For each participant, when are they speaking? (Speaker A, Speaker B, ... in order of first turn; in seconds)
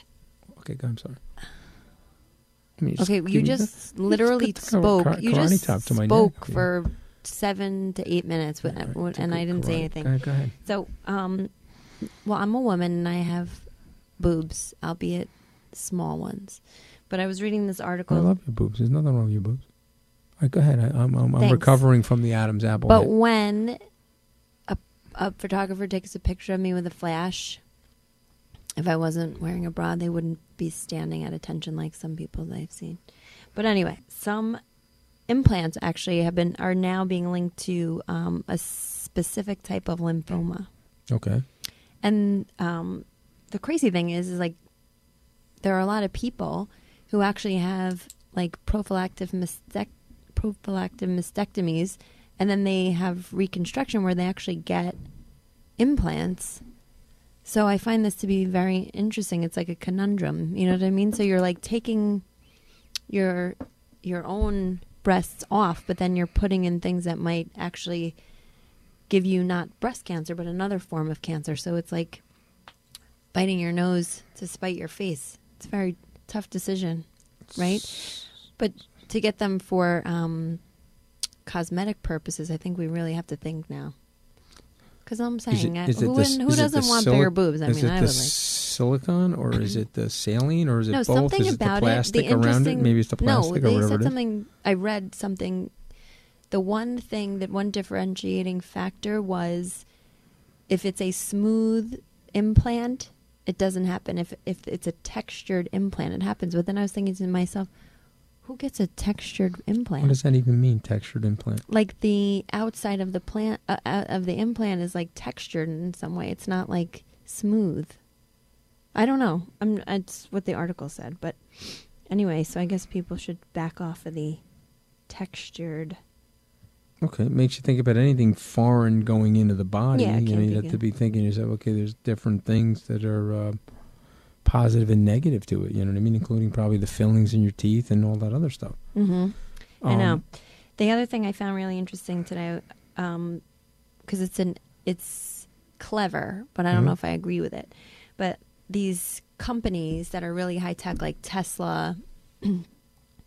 Speaker A: 0.6-1.2, 2.8-6.7, 8.6-10.5, 18.1-19.6, 20.4-23.1, 41.1-41.4, 77.5-78.1, 85.5-94.1, 110.0-111.6, 127.0-133.6, 134.4-138.8, 139.8-140.2
Speaker B: 3.0-11.5, 12.2-18.3, 21.4-21.8, 22.9-23.8, 24.7-27.6, 28.8-33.0, 33.5-34.6, 35.3-40.7, 42.0-44.6, 45.6-55.0, 55.8-56.6, 57.4-62.2, 63.1-68.2, 69.1-72.2, 73.3-80.6, 81.5-83.9, 85.0-88.3, 90.9-95.7, 96.5-99.8, 100.7-107.7, 108.4-110.2, 111.7-118.0, 118.9-124.4, 125.1-126.0, 129.9-130.8, 138.9-143.4, 144.1-152.6